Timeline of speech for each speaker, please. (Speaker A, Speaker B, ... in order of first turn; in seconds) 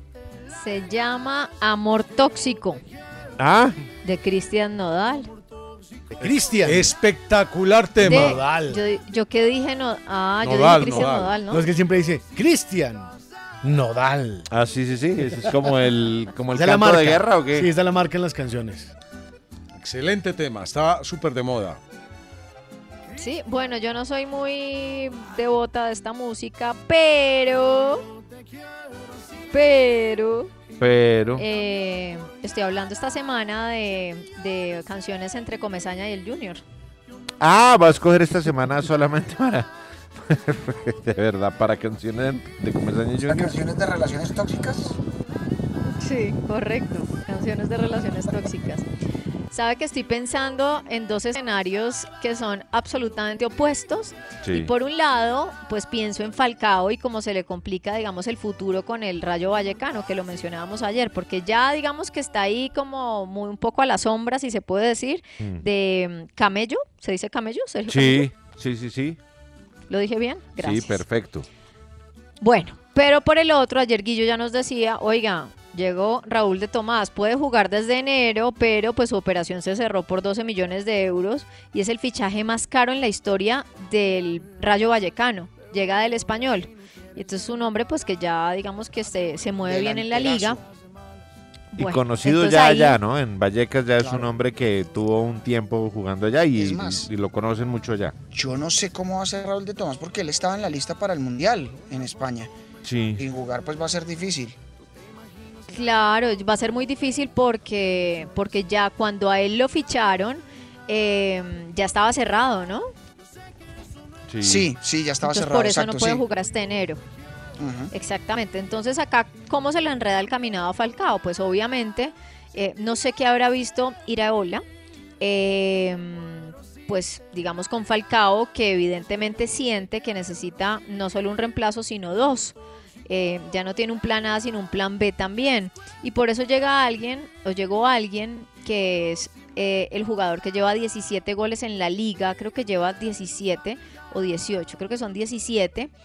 Speaker A: 0.5-2.8, 4.0-5.3, 8.0-11.7, 23.2-28.0, 29.5-30.5, 31.4-36.6, 46.0-48.8, 49.5-68.3, 69.9-71.0, 72.4-90.6, 91.7-93.0, 105.7-112.9, 115.2-117.0, 117.9-124.6, 125.2-132.5, 133.1-145.9
Speaker B: 3.4-3.8, 14.5-17.7, 30.8-31.4, 37.4-43.6, 54.4-54.7, 65.4-65.6, 67.9-69.2, 70.6-71.5, 91.8-98.2, 102.8-103.2, 114.3-114.7
Speaker C: 6.2-6.9, 8.0-8.8, 11.4-13.1, 13.6-14.4, 16.5-18.9
Speaker D: 6.6-8.4, 10.4-11.4, 19.8-21.8
Speaker E: 43.2-45.0, 89.6-90.6, 94.0-94.3, 96.5-97.1, 98.3-102.5, 103.2-104.5, 114.4-116.2, 117.6-117.9